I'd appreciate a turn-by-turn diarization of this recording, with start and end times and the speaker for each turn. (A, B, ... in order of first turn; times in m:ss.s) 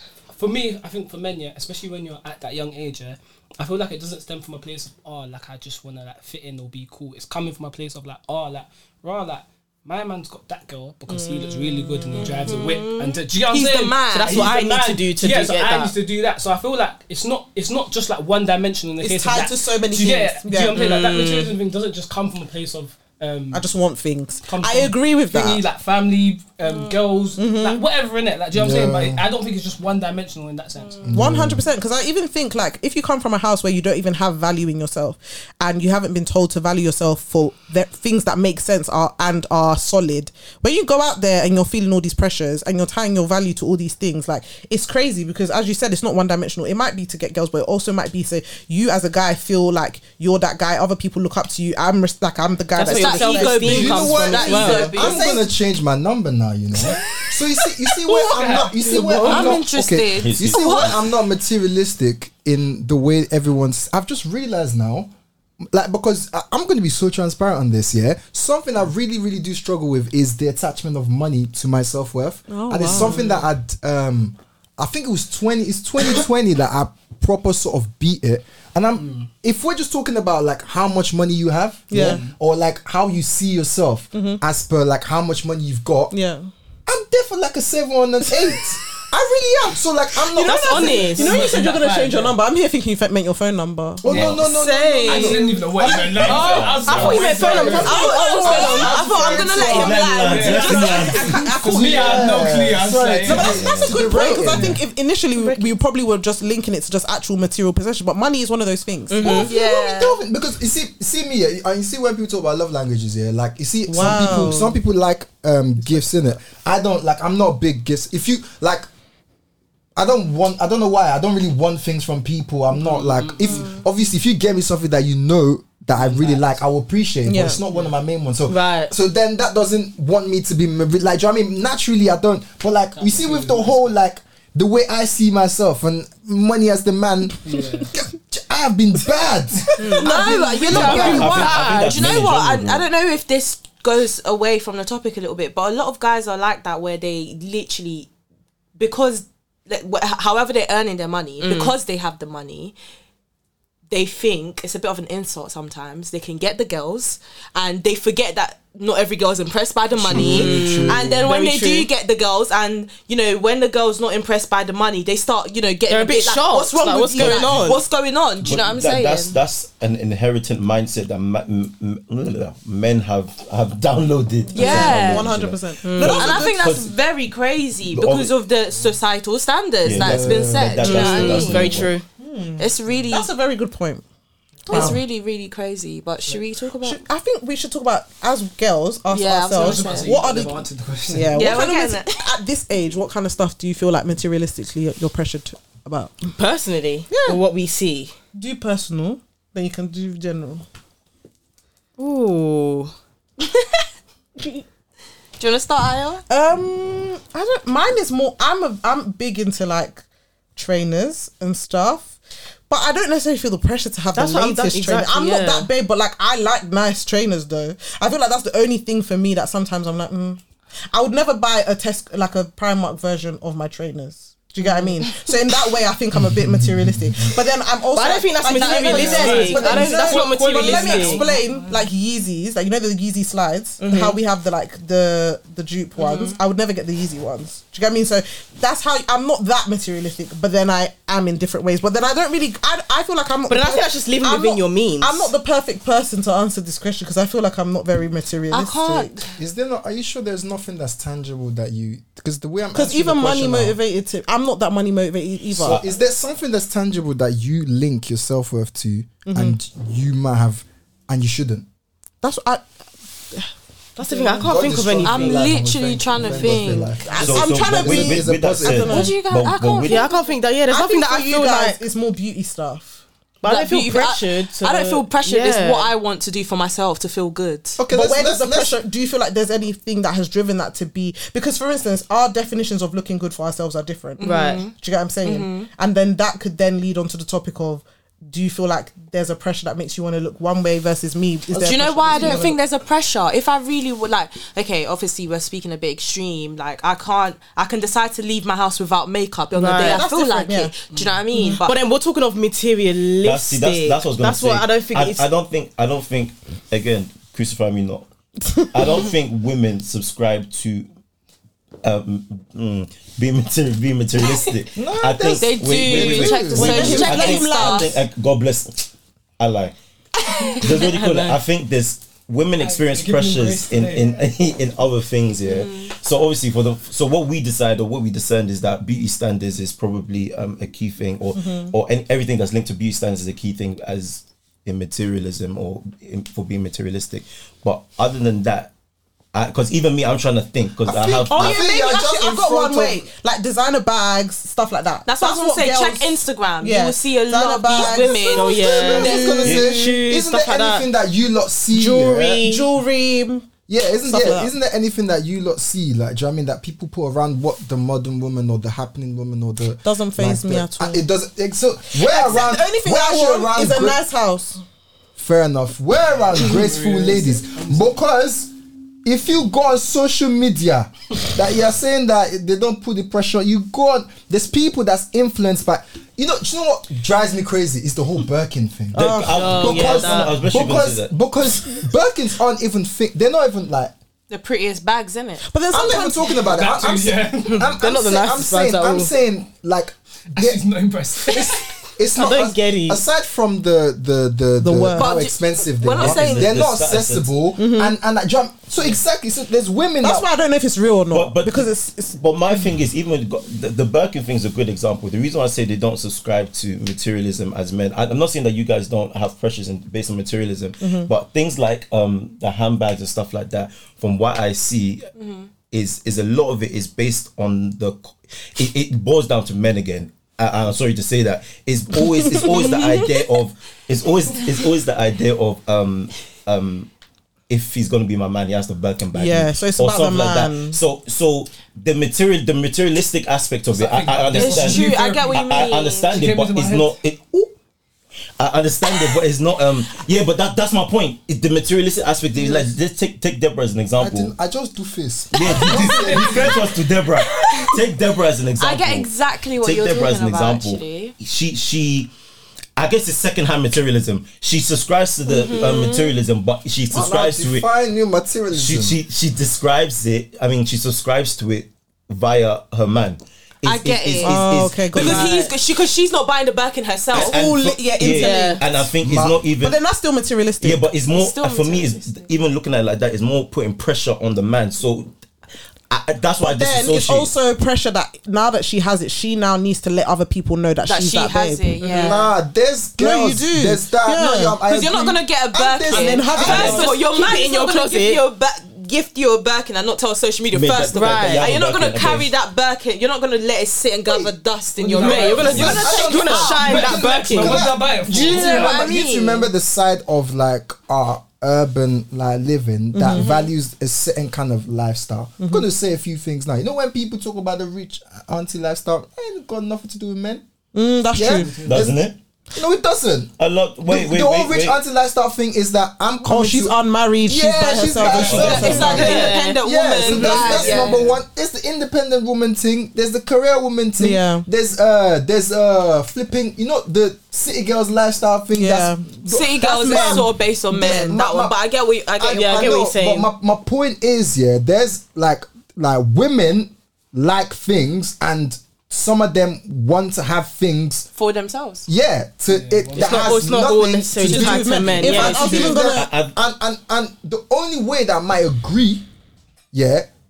0:00.3-0:23.7 A
0:11.1-0:12.6 B
0:12.5-0:14.5 C
0:14.1-0:15.9 D
0:19.0-0:20.9 B
0:20.7-0:21.5 D
0:23.5-0:25.6 B
0:24.4-0:31.1 A
0:27.4-0:27.8 B
0:28.5-0:29.2 E
0:31.0-0:31.6 E
0:31.1-0:55.5 B
0:52.7-0:55.0 D
0:52.8-0:55.4 C
0:53.6-1:05.1 E
0:58.0-0:59.6 A
0:59.2-1:01.0 C
1:00.2-1:01.0 F
1:05.7-1:26.1 E
1:12.5-1:13.3 B
1:12.9-1:13.4 A
1:19.0-1:19.3 A
1:21.9-1:22.2 B
1:21.9-1:22.3 A
1:24.1-1:24.4 B
1:26.1-1:26.5 B
1:26.9-1:31.3 E
1:30.2-1:34.3 B
1:30.4-1:31.4 D
1:31.1-1:32.4 A
1:34.0-1:37.9 E
1:34.0-1:34.4 A
1:34.1-1:34.5 F
1:35.0-1:39.5 A
1:36.0-1:37.9 F
1:36.3-1:38.8 D
1:36.3-1:41.3 C
1:36.9-1:40.0 B
1:38.5-1:39.9 E
1:39.5-1:41.4 F
1:40.0-1:43.6 A
1:40.5-1:42.4 B
1:41.6-1:44.8 E
1:43.2-1:49.5 B
1:43.3-1:44.1 F
1:44.4-1:44.8 A
1:45.3-1:45.7 C
1:49.1-1:49.5 D
1:49.2-1:58.8 E
1:49.3-1:50.2 C
1:53.9-1:54.8 B
2:00.0-2:21.6 E
2:02.7-2:03.7 A
2:06.0-2:06.6 A
2:07.2-2:07.6 B
2:08.5-2:08.9 D
2:12.9-2:13.9 A
2:17.4-2:17.9 A
2:19.8-2:28.1 C
2:19.9-2:21.4 B
2:20.7-2:22.9 F
2:28.8-2:32.8 C
2:31.4-2:31.7 D
2:33.9-2:49.4 C
2:39.9-2:41.2 E
2:40.1-2:41.9 D
2:45.9-2:47.8 D
2:47.2-2:47.6 F
2:48.4-2:55.6 F
2:54.5-2:56.7 B
2:54.5-2:55.3 C
2:55.8-2:56.4 D
2:56.0-3:01.8 C
2:56.4-2:56.9 F
2:57.9-2:58.3 F
2:59.8-3:02.0 F
2:59.9-3:01.5 E
3:00.8-3:02.0 D
3:02.2-3:04.0 B
3:02.6-3:03.3 C
3:04.7-3:05.0 B
3:04.7-3:07.0 C
3:04.7-3:05.0 E
3:06.8-3:16.3 B
3:09.1-3:10.2 C
3:09.6-3:11.6 A
3:11.3-3:12.2 C
3:16.3-3:18.1 D
3:17.1-3:17.4 B
3:18.3-3:20.6 B
3:22.0-3:22.9 D
3:24.4-3:24.6 B
3:25.4-3:26.2 C
3:26.3-3:30.0 B
3:30.6-3:32.1 B
3:32.7-3:40.4 B
3:34.1-3:35.7 D
3:40.9-4:09.1 B
3:46.1-3:47.4 E
3:47.9-3:51.2 D
3:48.6-3:51.9 A
3:53.8-3:54.2 D
3:56.0-3:56.4 C
4:03.5-4:05.3 D
4:08.5-4:09.3 C
4:09.4-4:13.8 E
4:12.7-4:15.8 B
4:15.6-4:15.9 F
4:15.6-4:21.7 E
4:19.2-4:19.6 B
4:22.2-4:22.7 B
4:23.3-4:24.4 B
4:24.0-4:25.5 D
4:24.4-4:28.9 E
4:25.0-4:26.9 C
4:26.3-4:29.2 B
4:27.2-4:30.1 F
4:28.7-4:30.3 C
4:29.8-4:31.8 D
4:30.7-4:33.0 B
4:33.4-4:35.9 D
4:33.4-4:37.8 C
4:37.8-4:38.8 E
4:37.9-4:52.6 B
4:44.2-4:44.7 C
4:44.2-4:44.7 D
4:45.2-4:45.7 C
4:51.5-5:01.8 C
4:59.5-5:00.0 D
4:59.8-5:00.7 B
5:00.9-5:01.2 A
5:01.3-5:01.6 B
5:01.6-5:05.3 D
5:03.2-5:08.1 F
5:08.5-5:09.0 B
5:08.7-5:10.9 F
5:11.8-5:19.7 F
5:14.7-5:17.1 E
5:15.2-5:17.9 C
5:16.5-5:18.0 B
5:20.3-5:20.7 C
5:20.4-5:21.4 D
5:20.5-5:38.7 F
5:22.6-5:24.2 A
5:25.4-5:25.9 C
5:31.3-5:31.7 B
5:39.3-5:41.7 F
5:40.8-5:49.8 B
5:41.3-5:43.1 E
5:45.0-5:49.3 C
5:47.7-5:50.9 D
5:48.5-5:52.5 E
5:49.4-5:49.7 F
5:51.7-5:52.6 D
5:52.4-5:54.5 B
5:53.7-6:04.0 E
5:59.8-6:01.0 B
6:01.9-6:04.6 B
6:05.2-6:08.5 E
6:06.3-6:08.0 A
6:09.0-6:23.9 E
6:18.9-6:19.7 B
6:18.9-6:21.1 F
6:19.3-6:20.5 D
6:24.3-6:25.4 C
6:25.4-6:26.4 B
6:25.7-6:30.6 E
6:26.3-6:27.8 A
6:27.4-6:29.1 D
6:30.3-6:31.8 A
6:31.2-6:40.3 E
6:32.2-6:33.0 D
6:34.6-6:35.2 B
6:35.0-6:36.6 C
6:36.0-6:37.4 F
6:37.6-6:38.0 B
6:40.0-6:42.2 B
6:41.1-6:55.1 F
6:50.8-6:51.1 B
6:55.2-6:55.5 C
6:55.7-7:06.9 F
7:01.9-7:02.7 B
7:02.4-7:03.2 C
7:07.5-7:17.5 F
7:09.1-7:10.8 B
7:13.7-7:16.9 A
7:14.3-7:16.2 C
7:18.4-7:24.3 F
7:24.0-7:26.6 E
7:25.3-7:32.1 F
7:25.5-7:26.3 C
7:25.7-7:26.4 A
7:27.2-7:27.8 C
7:28.6-7:31.1 C
7:32.8-7:37.7 F
7:35.3-7:36.1 C
7:36.9-7:39.0 E
7:38.5-7:45.3 F
7:43.6-7:47.4 C
7:44.2-7:45.5 B
7:45.0-7:45.5 D
7:47.1-7:49.8 F
7:47.2-7:48.9 B
7:48.0-7:48.6 D
7:48.2-7:48.5 C
7:49.0-7:49.4 E
7:49.6-7:50.9 B
7:50.6-7:55.1 F
7:51.1-7:52.3 C
7:55.9-7:57.3 F
7:56.4-8:02.1 B
8:00.8-8:02.2 C
8:01.8-8:02.2 D
8:02.0-8:06.8 E
8:03.0-8:04.6 B
8:04.7-8:16.8 C
8:05.9-8:06.9 B
8:05.9-8:08.2 D
8:06.4-8:06.9 A
8:10.5-8:12.3 F
8:10.9-8:11.5 D
8:14.0-8:14.3 E
8:14.8-8:16.0 A
8:15.0-8:17.7 D
8:15.4-8:30.4 E
8:16.6-8:18.9 A
8:18.1-8:19.5 C
8:22.9-8:23.4 B
8:23.1-8:23.5 C
8:25.4-8:25.6 B
8:30.7-8:31.7 B
8:31.1-8:32.0 E
8:31.2-8:31.9 A
8:31.6-8:32.2 F
8:32.5-8:33.3 E
8:33.4-8:34.8 F
8:33.8-8:51.5 E
8:36.2-8:39.4 B
8:37.9-8:39.1 A
8:38.2-8:38.7 F
8:38.3-8:41.0 C
8:38.8-8:39.6 D
8:40.0-8:41.2 A
8:44.0-8:44.4 B
8:48.5-8:51.2 B
8:49.2-8:52.8 C
8:52.2-9:01.1 E
8:52.3-8:53.3 D
9:01.1-9:01.9 C
9:01.9-9:09.0 E
9:02.5-9:03.6 A
9:03.0-9:05.8 D
9:04.2-9:06.1 B
9:05.7-9:06.4 F
9:09.7-9:10.1 E